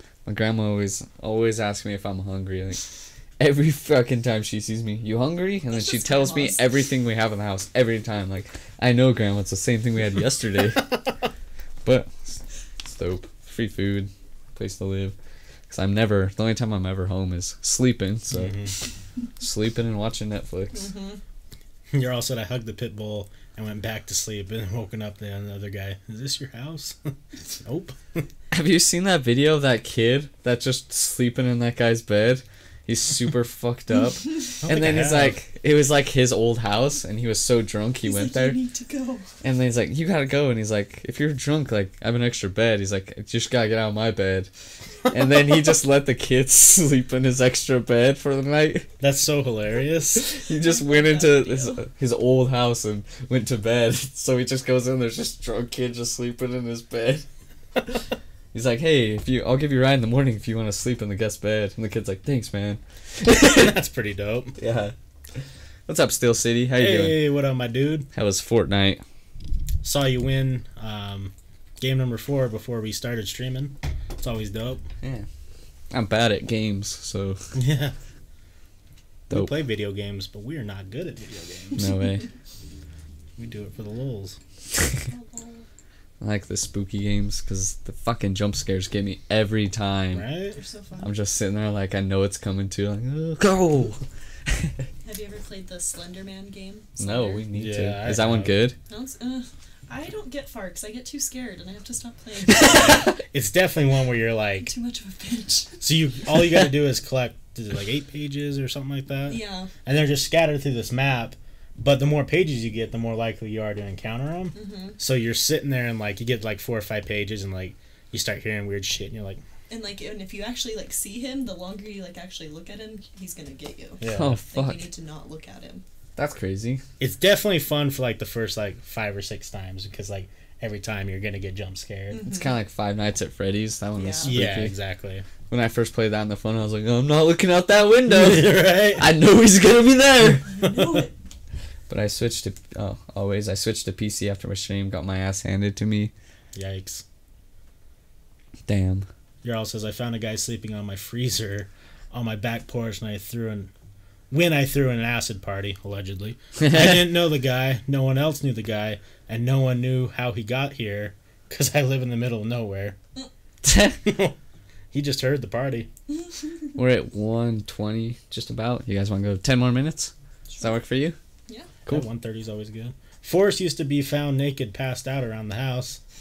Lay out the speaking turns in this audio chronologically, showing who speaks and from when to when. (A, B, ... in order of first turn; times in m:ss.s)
0:00.3-0:02.8 A
0:03.4-0:11.0 A
0:05.7-0:06.7 B
0:11.8-0:12.2 A
0:12.8-0:15.2 A
0:15.7-0:18.7 A
0:18.3-0:18.7 C
0:19.4-0:20.9 A
0:20.7-0:21.2 B
0:21.9-0:27.0 C
0:27.6-0:28.3 C
0:28.5-0:38.6 A
0:34.6-0:35.4 C
0:38.0-0:39.3 B
0:39.4-0:44.5 A
0:45.1-0:48.9 A
0:49.0-0:50.3 C
0:50.2-0:57.2 A
0:50.4-0:51.8 B
0:58.5-1:03.8 A
1:03.4-1:04.6 C
1:04.6-1:04.9 A
1:05.9-1:07.2 A
1:06.8-1:08.1 C
1:08.1-1:09.0 A
1:09.8-1:14.8 C
1:15.0-1:15.3 A
1:15.9-1:17.4 A
1:17.6-1:18.0 C
1:19.3-1:19.5 A
1:19.3-1:21.8 C
1:21.8-1:22.3 A
1:23.4-1:24.4 C
1:25.0-1:25.7 B
1:26.2-1:30.2 A
1:30.1-1:30.6 C
1:30.5-1:31.1 B
1:31.0-1:34.8 A
1:35.0-1:37.4 B
1:37.0-1:38.8 A
1:37.5-1:38.6 C
1:38.9-1:43.2 B
1:42.6-1:44.7 C
1:44.6-1:45.8 B
1:45.8-1:59.4 C
1:49.3-1:49.7 B
1:54.6-1:55.0 B
1:59.7-2:05.8 B
2:04.0-2:04.4 C
2:04.1-2:04.9 A
2:06.2-2:06.8 A
2:07.0-2:12.2 C
2:12.1-2:12.6 B
2:12.3-2:14.8 A
2:14.0-2:14.3 B
2:14.2-2:15.3 C
2:15.5-2:20.5 A
2:18.1-2:19.1 C
2:20.4-2:21.1 B
2:21.9-2:26.1 A
2:26.6-2:27.0 C
2:28.7-2:29.1 A
2:29.4-2:33.7 C
2:34.3-2:43.0 C
2:36.6-2:37.1 A
2:43.6-2:44.0 A
2:44.0-2:44.4 C
2:44.9-2:45.9 C
2:46.8-2:51.2 A
2:50.5-2:50.8 B
2:51.8-2:56.0 C